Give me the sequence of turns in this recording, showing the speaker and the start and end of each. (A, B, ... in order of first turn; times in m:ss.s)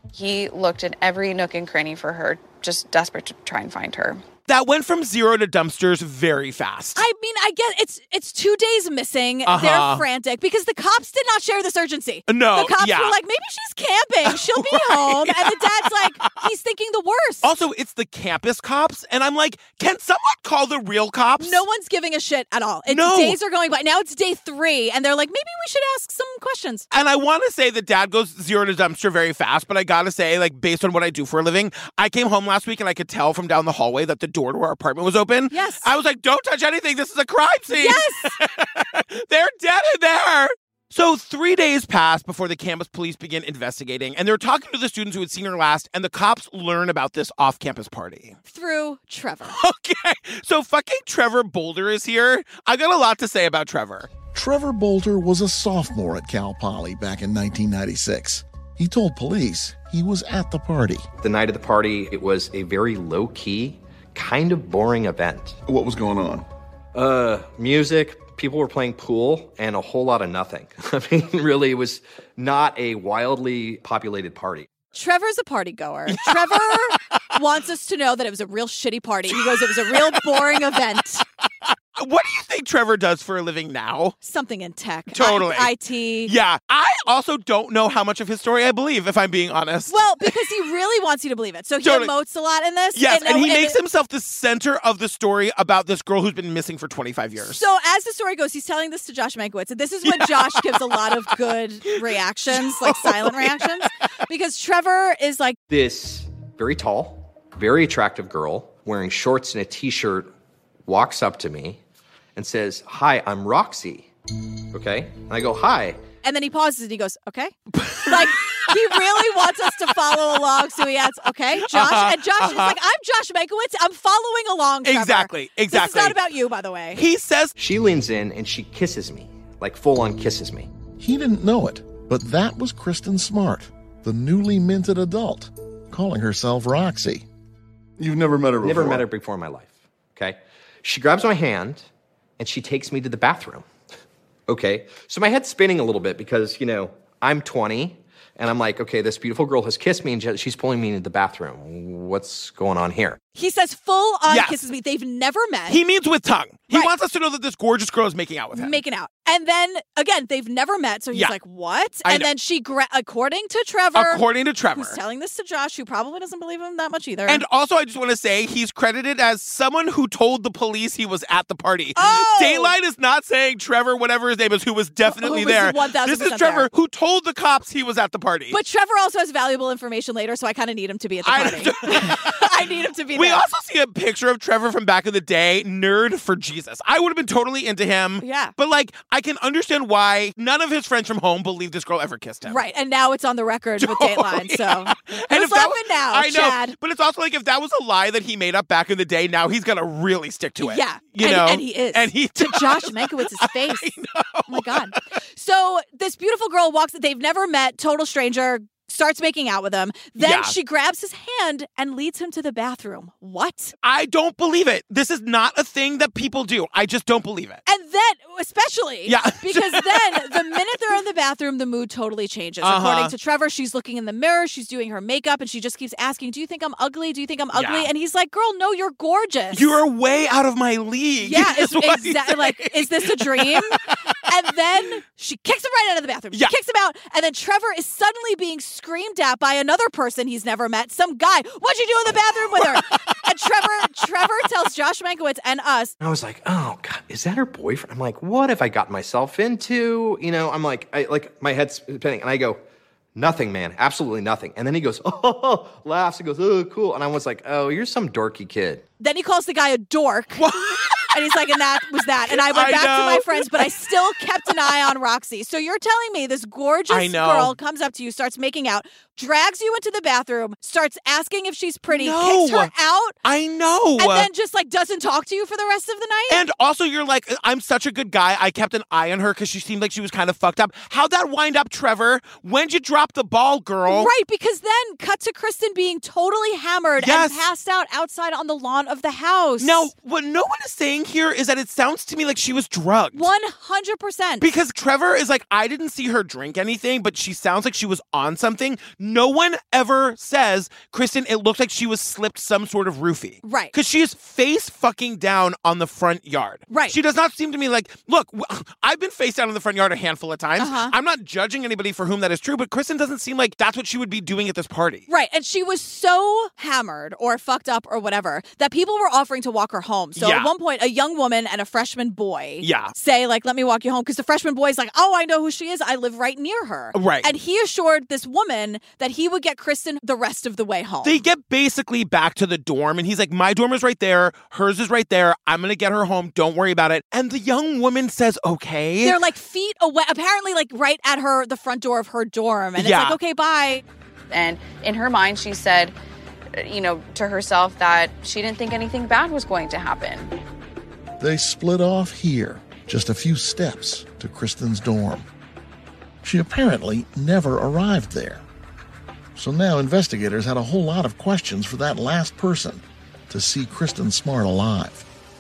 0:00.1-0:04.2 A
0:04.5-0:07.0 B
0:07.0-0:17.5 C
0:09.5-0:10.0 B
0:12.3-0:13.2 B
0:14.2-0:16.4 B
0:17.4-0:21.6 B
0:21.4-0:26.9 C
0:22.9-0:23.4 B
0:26.9-0:48.4 B
0:35.5-0:35.9 C
0:37.7-0:38.3 C
0:48.5-0:49.6 C
0:49.5-0:54.1 B
0:54.3-1:01.1 D
1:01.2-1:05.6 E
1:05.7-1:06.5 D
1:06.9-1:14.7 E
1:14.9-1:21.2 C
1:16.1-1:17.0 B
1:19.3-1:20.6 B
1:21.6-1:24.2 B
1:24.2-1:26.3 C
1:25.1-1:25.7 B
1:26.3-1:30.4 B
1:29.9-1:33.8 C
1:31.8-1:32.1 B
1:33.0-1:37.6 B
1:37.4-1:45.6 C
1:40.0-1:41.1 B
1:42.5-1:43.8 B
1:45.7-1:50.3 E
1:50.9-1:51.8 E
1:52.4-1:54.1 E
1:54.7-1:56.0 E
1:56.2-2:07.0 C
1:57.7-1:59.0 B
2:01.6-2:02.8 B
2:04.8-2:06.2 B
2:07.0-2:07.6 B
2:07.6-2:10.7 E
2:11.0-2:17.3 D
2:18.0-2:19.0 D
2:18.6-2:21.9 E
2:22.4-2:23.7 E
2:24.5-2:33.2 E
2:33.4-2:35.8 C
2:34.3-2:34.6 B
2:35.7-2:38.8 B
2:38.5-2:44.2 C
2:44.0-2:45.0 B
2:44.7-2:47.4 C
2:47.3-2:58.6 B
2:52.0-2:52.7 C
2:55.0-2:56.7 C
2:58.5-3:03.4 C
3:01.2-3:02.5 B
3:03.1-3:12.6 B
3:08.2-3:08.5 C
3:12.5-3:16.8 C
3:13.8-3:24.9 B
3:20.6-3:23.9 C
3:24.5-3:33.7 C
3:30.2-3:30.5 B
3:33.8-3:37.6 B
3:37.7-3:49.7 C
3:39.1-3:40.5 B
3:42.6-3:43.1 B
3:47.5-3:47.9 B
3:49.5-3:54.0 B
3:51.2-4:06.0 C
4:02.5-4:03.2 B
4:06.0-4:12.6 E
4:13.2-4:18.8 E
4:19.0-4:20.5 C
4:20.4-4:21.6 B
4:21.1-4:33.2 C
4:22.2-4:23.9 B
4:24.5-4:24.9 B
4:26.9-4:27.5 B
4:31.9-4:32.7 B
4:33.2-4:34.3 B
4:34.0-4:36.4 C
4:36.3-4:44.1 B
4:43.9-4:49.9 C
4:47.0-4:47.4 B
4:49.6-4:53.3 B
4:53.1-4:54.5 C
4:54.4-5:15.1 B
5:03.4-5:03.7 C
5:06.7-5:07.0 C
5:10.6-5:10.9 C
5:15.1-5:31.2 C
5:20.2-5:20.5 B
5:22.6-5:22.9 B
5:26.9-5:27.3 B
5:31.0-5:39.2 B
5:39.0-5:43.8 C
5:42.8-5:43.2 B
5:44.3-5:45.9 A
5:46.5-5:50.3 A
5:51.2-5:55.3 D
5:56.2-5:58.4 D
5:59.4-6:05.1 D